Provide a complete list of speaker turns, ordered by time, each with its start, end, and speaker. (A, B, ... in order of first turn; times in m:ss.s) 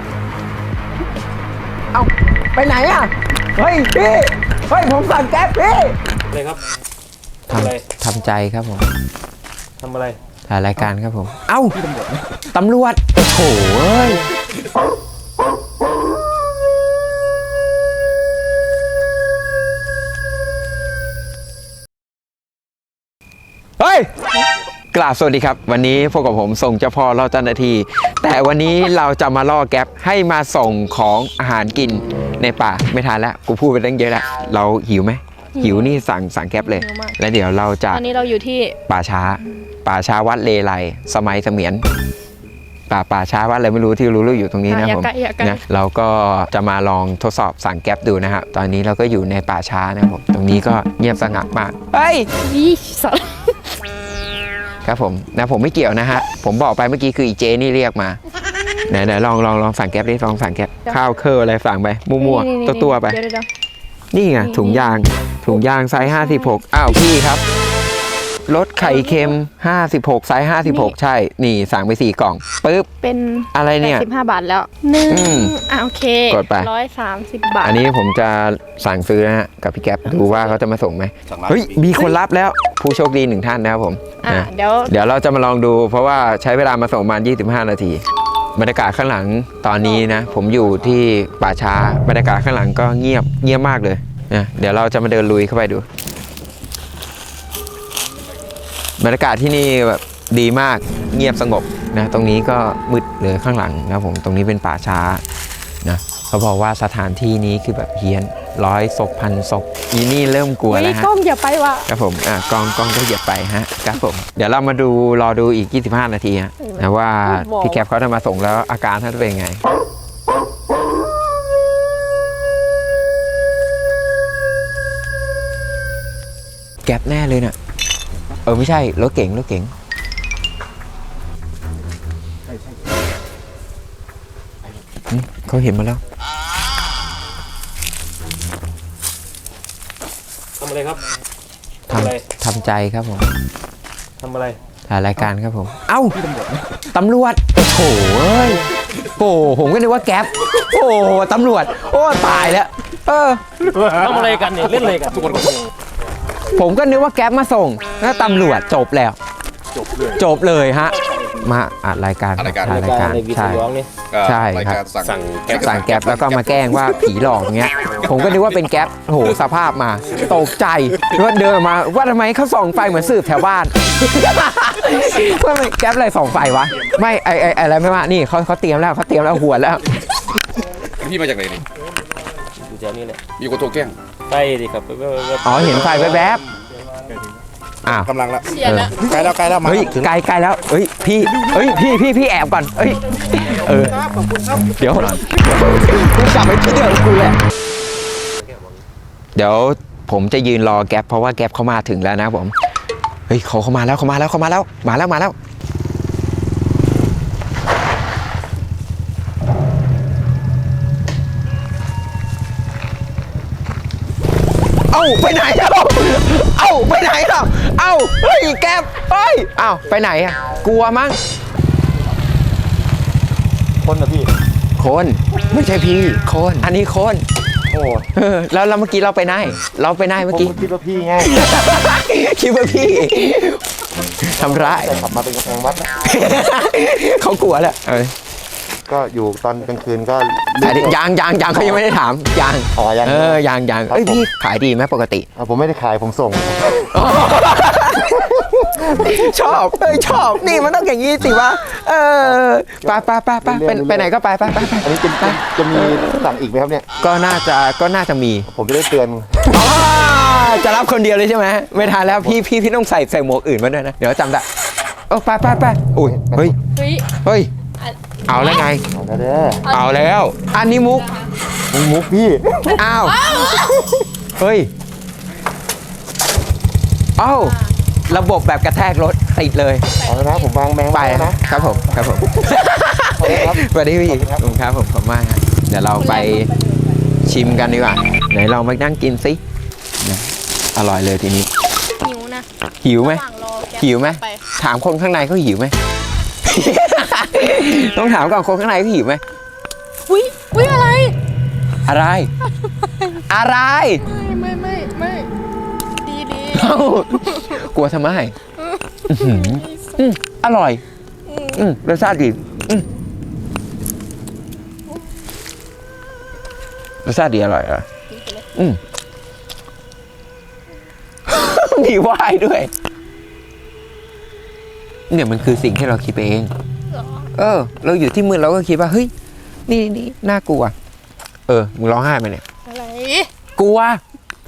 0:01.9-0:06.0 A
0:06.3-0:06.6 B
0:07.5-0:07.8 B
0:07.5-0:08.9 A
0:09.8-0:10.2 B
0:10.5-0:11.8 A
0:12.5-0:14.2 A
0:23.8-0:24.1 A
0:24.9-0:38.0 A
0:35.6-0:36.0 C
0:36.6-0:37.2 C
0:37.9-0:38.8 C
0:38.9-0:41.8 A
0:42.9-0:52.3 A
0:44.7-0:45.6 C
0:52.4-0:53.6 C
0:54.8-0:58.2 A
0:58.9-1:03.2 A
1:02.2-1:03.5 C
1:04.1-1:07.4 A
1:04.4-1:05.0 C
1:06.0-1:06.6 C
1:08.5-1:12.9 A
1:08.8-1:09.3 C
1:10.6-1:10.9 C
1:13.0-1:17.8 C
1:13.5-1:14.1 A
1:15.1-1:15.6 A
1:16.3-1:16.7 A
1:17.6-1:28.0 A
1:21.3-1:21.8 D
1:24.2-1:24.9 C
1:28.5-1:35.8 A
1:39.0-1:45.2 A
1:45.8-1:51.1 A
1:50.7-1:51.9 C
1:51.9-1:59.6 A
1:56.6-1:57.8 C
2:06.8-2:07.6 A
2:08.5-2:09.7 A
2:15.1-2:16.0 A
2:20.6-2:21.0 B
2:21.9-2:22.2 B
2:21.9-2:23.3 A
2:24.2-2:24.6 B
2:24.9-2:26.2 A
2:26.9-2:28.6 A
2:29.2-2:34.5 A
2:33.8-2:35.6 B
2:34.9-2:35.5 D
2:36.5-2:39.2 A
2:40.0-2:43.6 A
2:42.4-2:42.9 D
2:42.7-2:43.9 B
2:44.1-2:46.9 D
2:44.2-2:44.8 A
2:45.0-2:45.6 B
2:45.5-2:59.9 A
3:01.0-3:01.6 D
3:02.6-3:03.2 B
3:03.4-3:04.0 D
3:04.3-3:06.2 B
3:05.4-3:06.4 A
3:07.8-3:17.4 A
3:08.1-3:08.5 D
3:09.1-3:09.8 D
3:19.3-3:22.5 A
3:23.3-3:25.3 A
3:34.9-3:41.2 A
3:43.8-3:44.3 E
3:44.8-3:47.2 A
3:47.7-3:48.1 E
3:48.1-3:50.6 A
3:50.2-3:51.3 E
3:51.2-3:53.6 A
3:54.2-3:55.0 A
3:54.4-3:55.9 E
3:56.0-3:58.1 A
3:58.9-4:01.0 E
4:00.6-4:05.3 A
4:01.5-4:01.8 E
4:02.8-4:04.3 E
4:05.3-4:06.8 E
4:06.7-4:16.3 A
4:12.2-4:14.1 E
4:14.6-4:16.8 E
4:17.0-4:18.5 A
4:18.5-4:19.4 E
4:19.4-4:24.4 A
4:22.0-4:22.4 E
4:25.1-4:26.5 A
4:26.0-4:26.5 E
4:26.8-4:27.1 C
4:27.2-4:27.5 A
4:28.3-4:28.8 A
4:28.9-4:29.8 E
4:29.6-4:31.2 A
4:29.8-4:30.2 C
4:31.7-4:32.8 E
4:32.6-4:33.4 A
4:33.2-4:33.9 C
4:34.4-4:34.7 A
4:37.2-4:39.8 A
4:40.0-4:40.5 C
4:40.0-4:41.4 E
4:40.9-4:46.5 A
4:43.2-4:44.5 E
4:46.0-4:47.0 C
4:47.2-4:49.4 A
4:50.0-4:51.5 A
4:52.0-4:54.4 C
4:52.8-4:53.2 A
4:53.8-4:55.7 A
4:56.4-4:59.2 A
5:00.1-5:01.1 C
5:01.8-5:02.3 A
5:02.8-5:03.2 C
5:03.3-5:04.1 A
5:04.0-5:05.3 C
5:06.0-5:07.6 C
5:06.5-5:08.3 A
5:08.6-5:10.0 C
5:09.1-5:10.8 A
5:11.2-5:11.6 C
5:11.5-5:12.8 A
5:17.0-5:17.8 A
5:18.1-5:18.5 C
5:18.5-5:18.8 A
5:21.3-5:22.7 A
5:25.1-5:26.5 A
5:27.3-5:29.1 A
5:29.7-5:30.7 A
5:31.5-5:32.4 A
5:32.6-5:33.3 C
5:33.6-5:34.0 A